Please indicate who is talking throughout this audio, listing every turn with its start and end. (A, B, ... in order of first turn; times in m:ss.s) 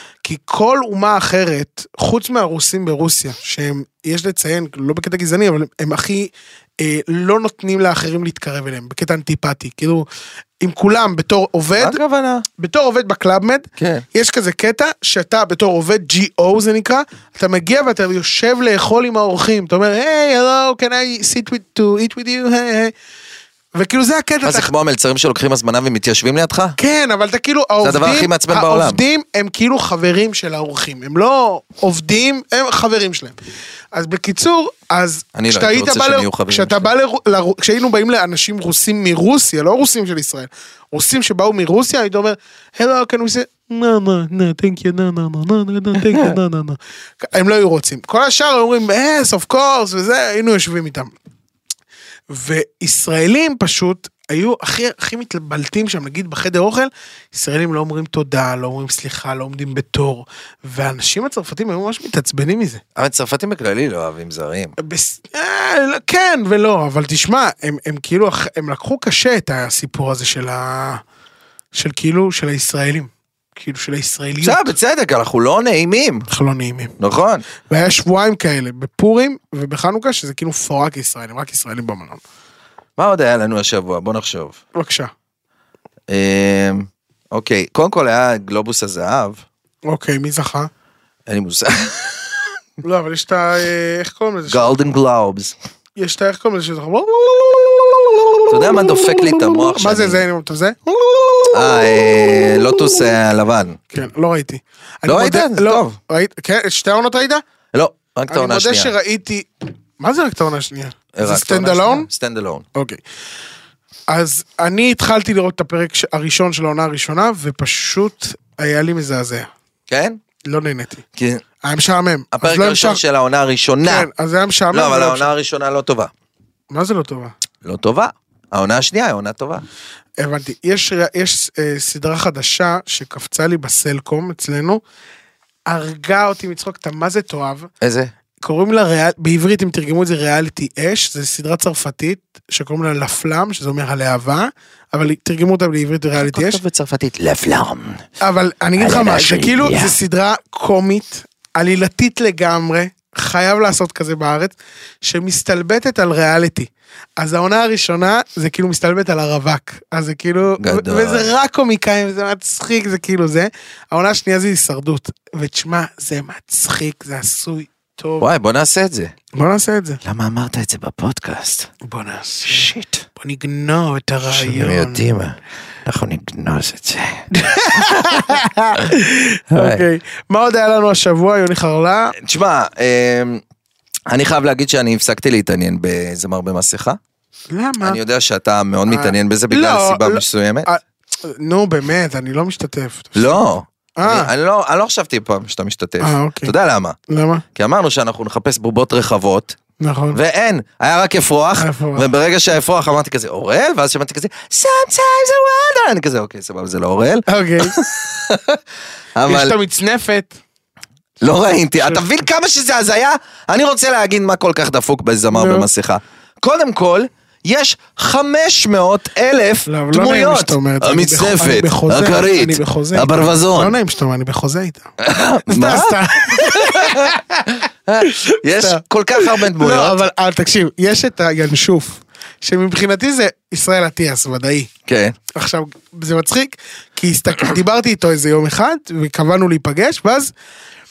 0:00.2-0:10.1 A
0:10.6-0:12.0 A
0:11.8-0:12.4 B
0:12.6-0:22.9 A
0:13.8-0:14.0 B
0:23.8-0:24.7 A
0:24.4-0:26.8 B
0:26.8-0:33.4 A
0:27.8-0:29.0 B
0:33.9-0:51.1 A
0:35.4-0:36.9 B
0:52.3-1:02.8 A
1:03.0-1:04.8 B
1:04.8-1:11.0 A
1:11.7-1:14.7 A
1:14.4-1:16.3 B
1:16.3-1:16.9 A
1:17.0-1:17.4 B
1:17.7-1:22.2 A
1:23.0-1:24.6 B
1:24.8-1:25.1 A
1:26.1-1:29.4 B
1:29.9-1:30.7 A
1:31.3-1:32.5 B
1:32.8-1:34.8 A
1:34.5-1:35.6 B
1:36.0-1:43.1 A
1:38.5-1:40.2 B
1:41.5-1:43.8 B
1:43.9-1:47.4 A
1:45.1-1:46.0 B
1:47.7-1:48.9 B
1:48.3-1:52.1 A
1:51.1-1:52.6 B
1:52.8-1:53.0 A
1:54.1-1:59.5 A
1:59.9-2:00.2 B
2:00.4-2:01.0 A
2:01.2-2:01.4 B
2:01.6-2:03.0 A
2:02.3-2:04.1 B
2:03.8-2:05.3 A
2:04.7-2:06.1 B
2:06.7-2:07.3 A
2:07.6-2:09.6 B
2:10.2-2:14.8 A
2:15.7-2:17.7 A
2:17.8-2:18.1 B
2:18.4-2:26.6 A
2:26.2-2:28.0 B
2:28.2-2:48.3 A
2:28.8-2:30.0 B
2:40.6-2:41.3 B
2:48.2-2:49.1 B
2:49.3-2:50.0 A
2:50.0-2:51.7 B
2:51.8-2:55.0 A
2:52.4-2:53.0 B
2:54.3-2:58.8 B
2:57.3-3:02.2 A
2:59.5-2:59.8 B
3:02.2-3:03.4 B
3:04.1-3:07.0 B
3:07.5-3:08.0 A
3:07.8-3:10.7 B
3:08.9-3:13.4 A
3:13.2-3:17.0 B
3:14.0-3:14.3 A
3:16.0-3:16.5 A
3:17.1-3:17.4 A
3:17.6-3:19.6 B
3:19.8-3:20.2 A
3:20.1-3:28.6 B
3:21.6-3:22.1 A
3:27.3-3:27.8 A
3:29.2-3:29.6 B
3:29.2-3:30.4 A
3:31.2-3:43.8 B
3:31.8-3:32.1 A
3:35.3-3:35.7 A
3:39.7-3:44.9 A
3:45.0-3:50.0 B
3:45.5-3:54.7 A
3:54.9-3:55.2 B
3:55.4-4:00.3 A